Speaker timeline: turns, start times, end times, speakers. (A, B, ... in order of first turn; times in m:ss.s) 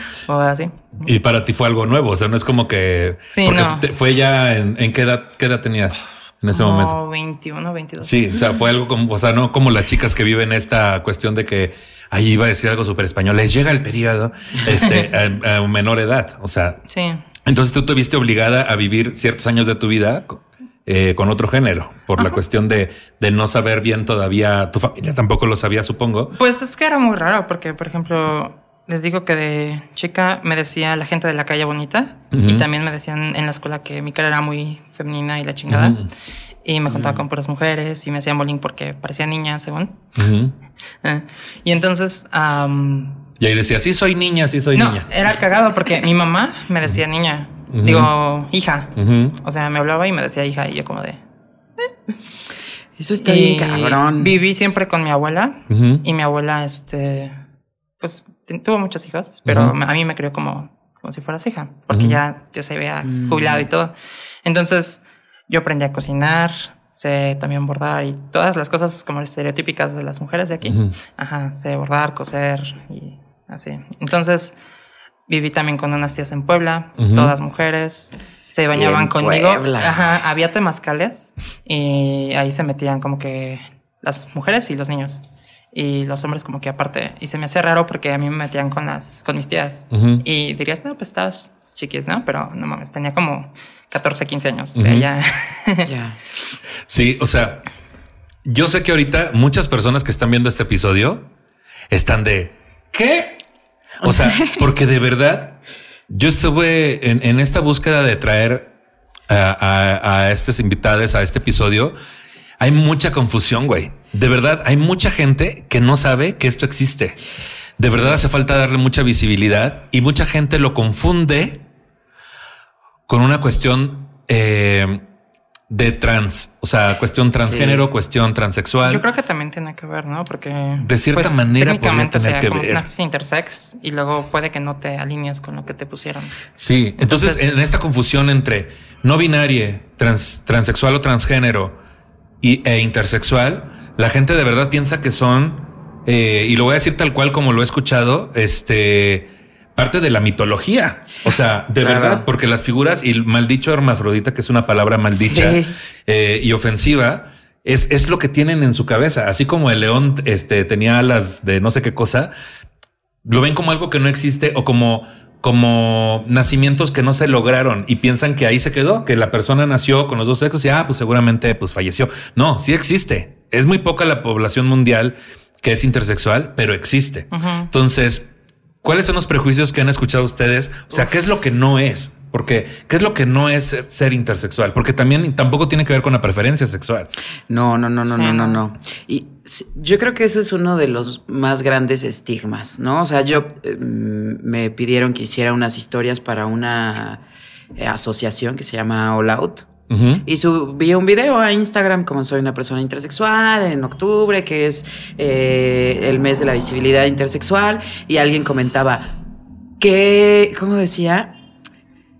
0:00.2-0:01.0 A
0:01.0-0:07.0 B
0:03.3-0:03.9 A
0:06.5-0:08.4 A
0:08.0-0:16.8 B
0:14.7-0:15.1 A
0:16.9-0:17.2 A
0:17.4-0:26.3 B
0:26.3-0:36.1 A
0:32.3-0:32.6 B
0:35.7-0:36.1 B
0:36.6-0:40.0 A
0:36.9-0:37.2 C
0:40.1-0:40.5 B
0:41.0-0:43.2 A
0:43.4-0:45.1 B
0:44.7-0:51.2 A
0:47.7-0:48.1 B
0:49.0-0:49.4 B
0:51.8-0:52.1 A
0:53.0-0:54.3 C
0:53.2-0:57.4 A
0:55.7-0:56.0 B
0:58.0-1:14.5 A
0:59.4-0:59.7 B
1:01.9-1:02.2 B
1:03.0-1:03.7 C
1:10.6-1:10.9 B
1:15.3-1:35.9 A
1:17.0-1:17.3 B
1:18.7-1:20.0 C
1:29.9-1:30.2 B
1:34.7-1:35.1 B
1:35.8-1:36.2 C
1:36.9-1:37.6 B
1:38.4-1:41.3 B
1:41.9-1:43.4 B
1:44.0-1:48.7 B
1:44.0-1:44.6 C
1:49.3-1:51.9 B
1:52.6-1:57.2 B
1:57.8-2:01.6 B
1:57.8-1:58.2 C
2:03.1-2:05.0 B
2:05.7-2:09.0 B
2:07.4-2:07.8 C
2:08.8-2:17.5 A
2:10.8-2:12.8 B
2:16.6-2:21.8 B
2:22.4-2:42.3 B
2:31.8-2:32.3 C
2:35.1-2:35.7 C
2:43.2-2:58.3 B
2:57.3-2:57.7 A
2:58.8-3:07.1 B
3:07.5-3:17.2 C
3:08.0-3:08.6 A
3:17.7-3:19.7 C
3:19.9-3:20.2 B
3:20.2-3:29.2 C
3:29.8-3:31.3 C